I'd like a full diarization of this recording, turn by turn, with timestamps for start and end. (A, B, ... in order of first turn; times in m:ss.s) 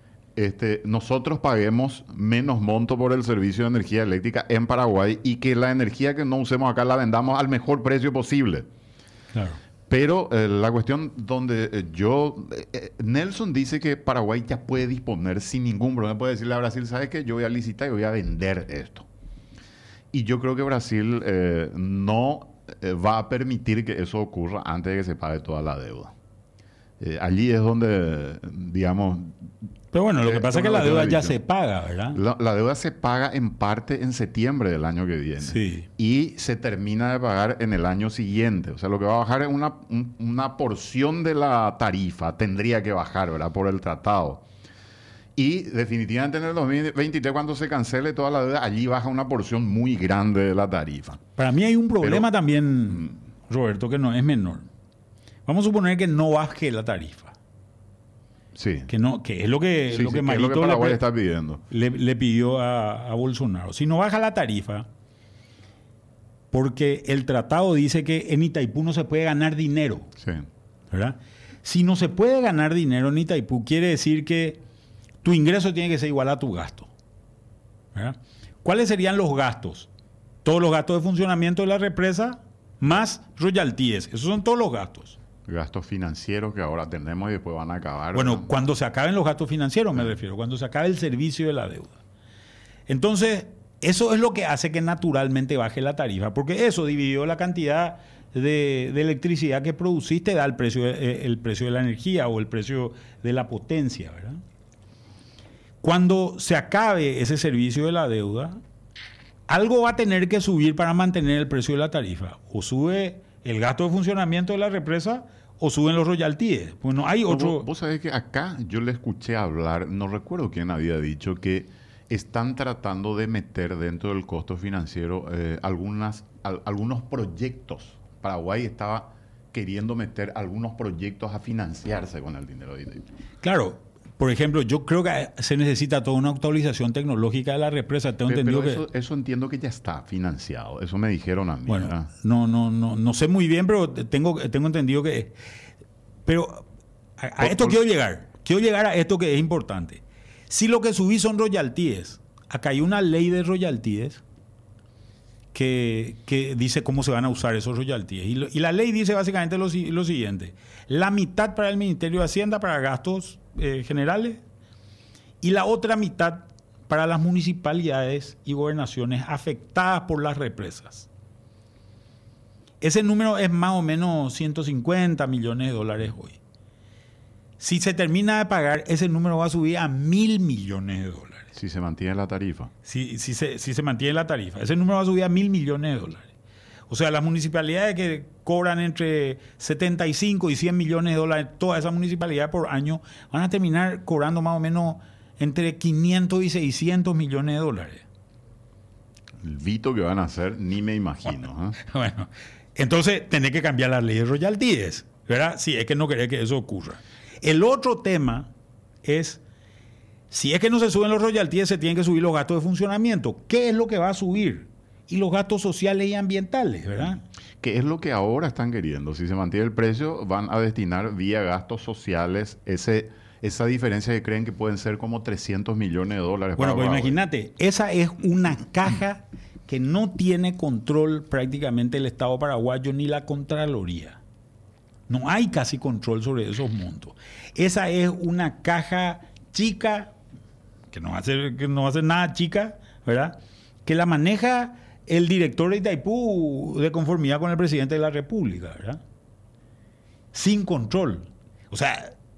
0:00.4-0:08.7 A
0:09.3-0:09.6 B
0:09.9-0:19.1 A
0:20.1-0:26.1 A
0:27.0-0:29.5 A
0:29.9-0:32.2 B
0:30.2-0:31.4 A
0:32.1-0:44.4 A
0:35.4-0:35.8 B
0:45.4-0:51.2 A
0:51.4-0:54.7 B
0:52.0-0:52.3 A
0:55.4-0:57.3 B
0:58.5-0:58.9 A
0:58.9-1:01.0 B
0:59.9-1:01.6 A
1:01.7-1:04.9 B
1:06.5-1:10.1 B
1:10.2-1:10.5 A
1:10.9-1:14.6 B
1:15.2-1:16.9 B
1:17.9-1:19.9 B
1:20.4-1:25.2 B
1:25.4-1:28.5 A
1:28.1-1:32.0 B
1:32.9-1:44.4 B
1:45.8-1:48.6 B
1:49.5-1:57.6 B
1:57.3-2:13.0 A
2:13.4-2:18.8 B
2:18.2-2:22.1 A
2:21.7-2:25.3 B
2:26.2-2:26.6 B
2:27.2-2:34.2 B
2:27.4-2:27.8 A
2:35.5-2:44.4 B
2:45.4-2:51.1 B
2:52.8-2:56.4 B
2:57.6-3:01.5 B
3:01.5-3:02.7 A
3:02.8-3:06.3 B
3:06.9-3:18.0 B
3:19.4-3:21.8 A
3:21.8-3:28.5 B
3:29.0-3:29.4 B
3:30.3-3:37.2 B
3:37.6-3:47.2 A
3:46.6-3:54.2 B
3:55.1-4:00.1 B
4:00.9-4:09.0 B
4:10.3-4:12.1 B